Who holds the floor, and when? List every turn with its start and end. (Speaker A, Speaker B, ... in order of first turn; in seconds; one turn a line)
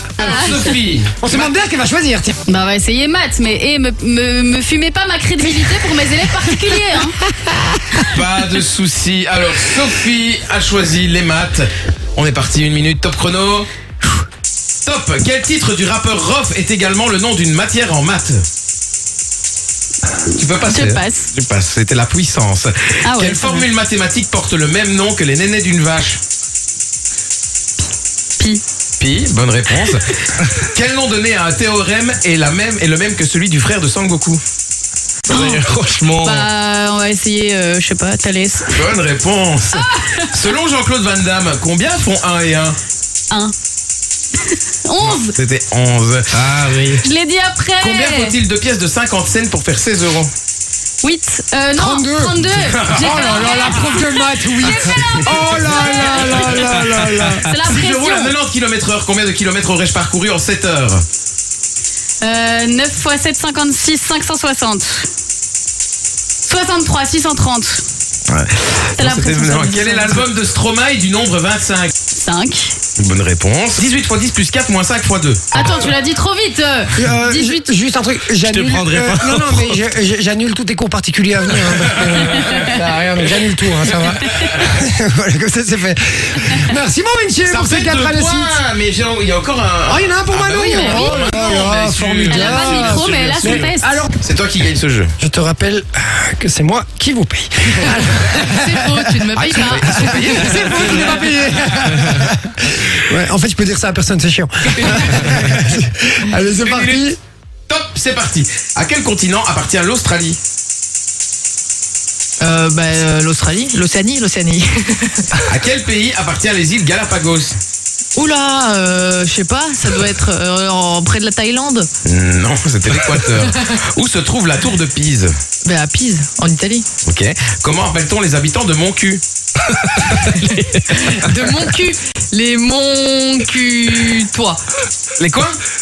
Speaker A: 0.2-1.5
Speaker B: 0.2-0.7
Speaker C: 1.2-2.4
Speaker B: 2.5-7.2
Speaker A: 8.0-13.7
Speaker A: 14.8-18.4
Speaker A: 20.3-26.2
Speaker B: 20.6-21.2
Speaker B: 23.1-23.7
Speaker A: 29.0-34.4
Speaker B: 35.3-35.6
Speaker A: 35.3-35.6
Speaker D: 35.4-36.5
Speaker B: 36.2-38.9
Speaker A: 38.7-42.8
Speaker B: 39.8-40.3
Speaker B: 44.4-45.3
Speaker A: 45.0-46.4
Speaker D: 46.3-47.0
Speaker B: 47.0-48.3
Speaker A: 47.8-50.3
Speaker B: 51.0-56.9
Speaker C: 51.8-52.4
Speaker A: 52.4-53.9
Speaker C: 52.9-57.5
Speaker A: 55.2-56.8
Speaker B: 57.4-58.3
Speaker A: 57.6-61.0
Speaker B: 62.2-65.1
Speaker B: 66.4-67.8
Speaker A: 68.3-71.9
Speaker B: 69.0-70.2
Speaker B: 72.1-72.8
Speaker A: 73.0-75.7
Speaker B: 75.5-77.7
Speaker C: 77.0-88.6
Speaker D: 78.4-79.8
Speaker A: 81.7-84.7
Speaker A: 87.5-95.1
Speaker C: 89.9-94.2
Speaker B: 90.7-91.6
Speaker B: 92.3-93.9
Speaker C: 95.2-107.2
Speaker B: 98.6-100.2
Speaker A: 99.4-102.0
Speaker D: 100.4-100.8
Speaker A: 106.4-107.1
Speaker A: 107.7-110.4
Speaker E: 112.4-115.2
Speaker A: 115.5-117.6
Speaker E: 118.1-121.9
Speaker A: 122.1-125.3
Speaker E: 125.6-126.9
Speaker A: 127.1-129.2
Speaker D: 129.8-131.7
Speaker E: 130.9-134.6
Speaker A: 135.2-135.6